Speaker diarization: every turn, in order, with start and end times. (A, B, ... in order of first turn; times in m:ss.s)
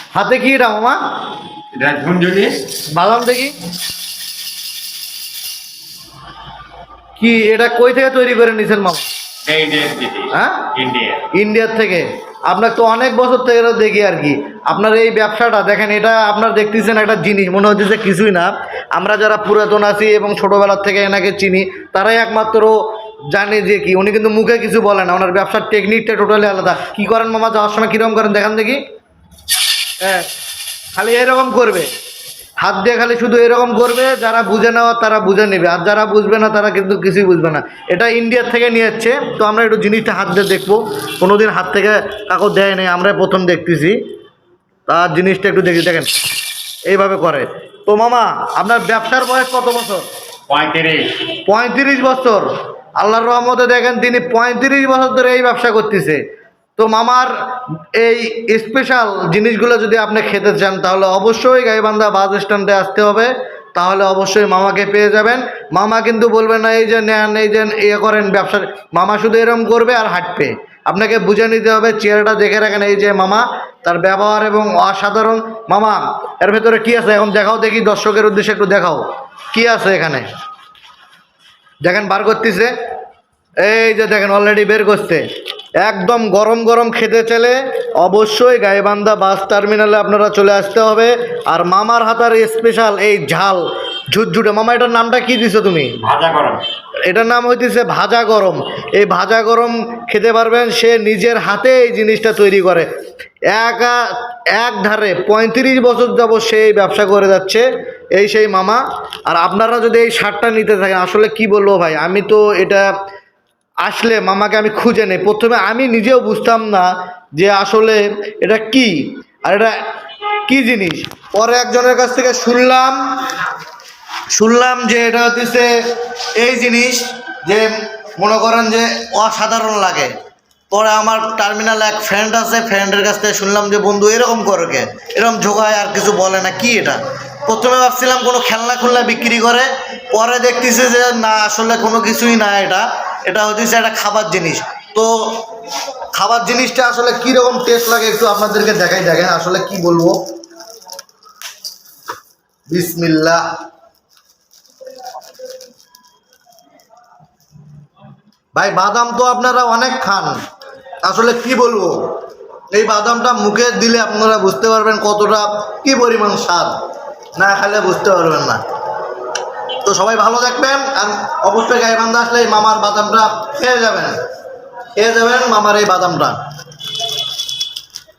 0:00.1-0:01.0 A
0:01.7-0:02.6 B
0:02.9-0:03.5 A
0:07.2-0:09.0 A
0:09.5-0:11.3 B
0:10.3-0:10.7 A
0:11.3-0:22.8 A
0:23.3-0:28.8 A
0:30.0-0:30.3 A
0:31.0-0:31.9 A
0:32.6-0:44.0 A
0:44.9-0:46.1 A
0:46.9-0:50.0 A
0:50.5-0:51.2 B
0:51.4-0:56.2 A
0:56.8-0:57.3 A
0:58.0-1:20.3 A
1:21.8-1:22.7 A
1:23.6-1:25.2 A
1:25.8-1:36.0 A
1:36.0-1:36.6 B
1:37.1-1:42.9 A
1:43.5-1:44.0 A
1:44.6-1:52.9 A
1:53.8-1:59.7 A
2:00.5-2:03.0 A
2:04.3-2:05.8 A
2:06.4-2:10.1 A
2:10.7-2:25.5 A
2:26.1-2:30.2 A
2:32.7-2:33.5 A
2:38.6-2:40.4 A
2:41.0-2:42.1 A
2:42.7-2:46.8 A
2:47.4-2:48.6 A
2:49.8-2:54.2 A
2:55.0-2:56.4 A